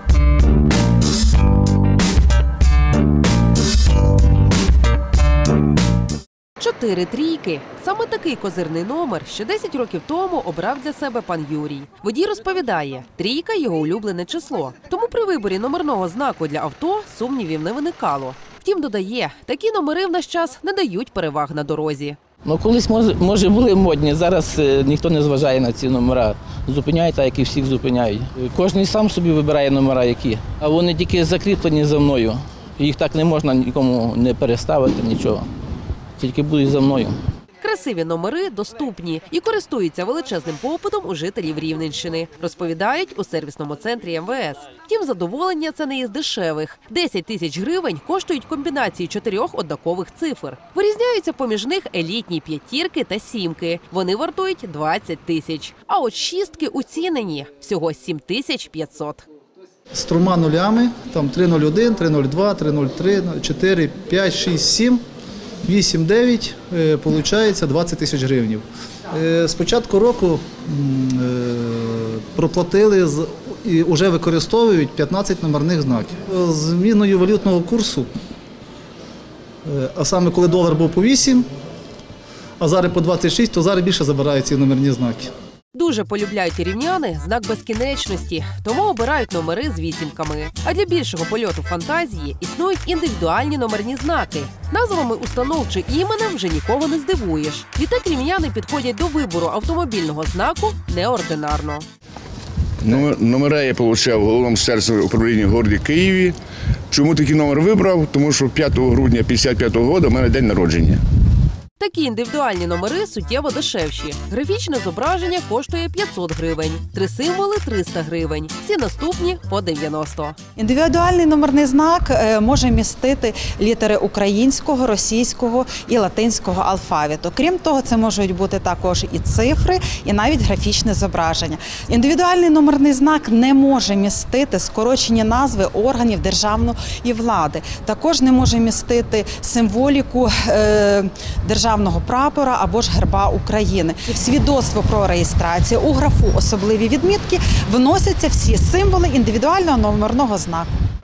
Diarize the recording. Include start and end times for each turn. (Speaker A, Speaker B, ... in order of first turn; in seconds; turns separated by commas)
Speaker A: 6.6-22.2, Speaker B: 22.4-35.5, Speaker B: 36.2-37.1, Speaker A: 37.6-59.2, Speaker C: 59.9-65.0, Speaker C: 65.6-78.1, Speaker C: 79.6-81.5, Speaker C: 82.6-85.3, Speaker A: 85.7-101.9, Speaker D: 102.8-106.4, Speaker D: 106.9-111.0, Speaker A: 111.8-120.4, Speaker E: 120.5-150.7